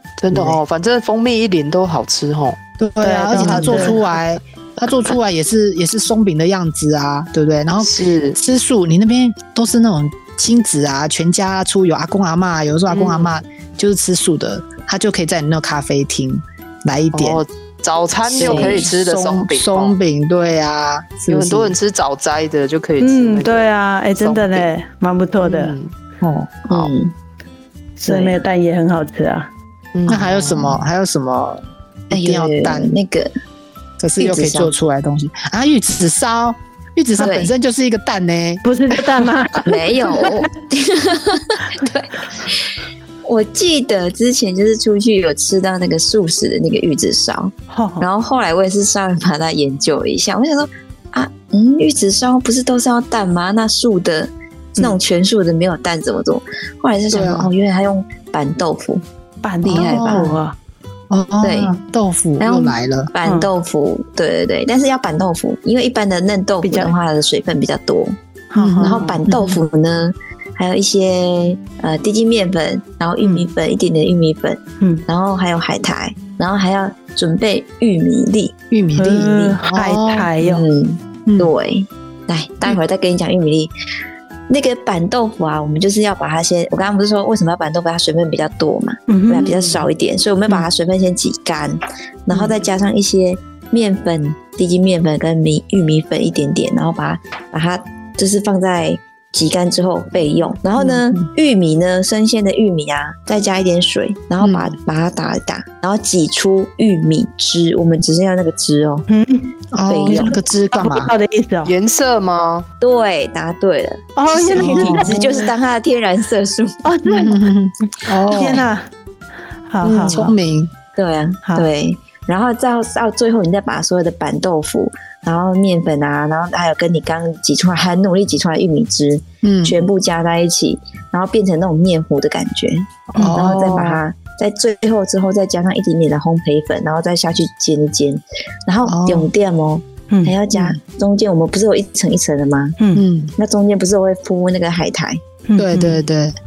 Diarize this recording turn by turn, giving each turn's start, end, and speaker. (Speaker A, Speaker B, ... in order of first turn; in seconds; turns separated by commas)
Speaker A: 0.2-2.6, Speaker B: 0.3-0.6, Speaker B: 2.8-17.4, Speaker C: 3.0-4.0, Speaker D: 3.4-4.0, Speaker A: 7.8-8.4, Speaker A: 12.9-13.3, Speaker A: 17.1-19.9, Speaker D: 18.3-18.9, Speaker B: 18.3-21.8, Speaker A: 21.3-24.7, Speaker C: 23.0-25.8, Speaker A: 25.4-25.9, Speaker D: 26.2-27.1, Speaker C: 28.0-29.5, Speaker A: 28.0-28.4, Speaker A: 29.9-30.8, Speaker B: 30.1-32.9, Speaker D: 32.1-33.3, Speaker B: 34.0-39.0, Speaker D: 34.2-34.7, Speaker D: 37.1-37.5, Speaker C: 38.6-40.4, Speaker D: 39.6-59.0, Speaker C: 47.7-48.1, Speaker B: 57.1-57.5, Speaker C: 59.4-60.5, Speaker D: 59.6-60.4, Speaker B: 59.7-60.3, Speaker B: 61.1-63.1, Speaker D: 61.4-61.7, Speaker D: 62.4-68.2, Speaker C: 63.2-63.5, Speaker C: 66.6-66.9, Speaker C: 68.5-69.5, Speaker B: 68.6-69.1, Speaker D: 68.8-78.5, Speaker C: 74.8-75.0, Speaker B: 78.7-80.3, Speaker C: 79.0-80.7, Speaker D: 79.3-79.6, Speaker D: 80.4-83.7, Speaker B: 81.2-81.5, Speaker D: 84.5-109.1, Speaker C: 89.1-89.5, Speaker B: 100.8-101.3, Speaker B: 104.4-104.7, Speaker C: 109.1-109.5, Speaker B: 109.7-111.1, Speaker D: 109.9-110.4, Speaker C: 110.1-111.7, Speaker A: 111.6-112.7, Speaker D: 112.8-116.8, Speaker C: 114.2-115.5, Speaker B: 114.6-115.3, Speaker C: 116.8-117.4, Speaker B: 117.1-118.6, Speaker C: 118.0-118.9, Speaker C: 119.7-120.3, Speaker B: 119.8-120.7, Speaker D: 121.0-142.8, Speaker B: 129.4-129.9, Speaker B: 133.1-134.0, Speaker B: 138.8-139.3, Speaker C: 140.1-140.3, Speaker C: 142.8-143.0, Speaker B: 142.9-143.3, Speaker D: 143.4-145.2, Speaker C: 145.5-146.0, Speaker B: 145.6-146.3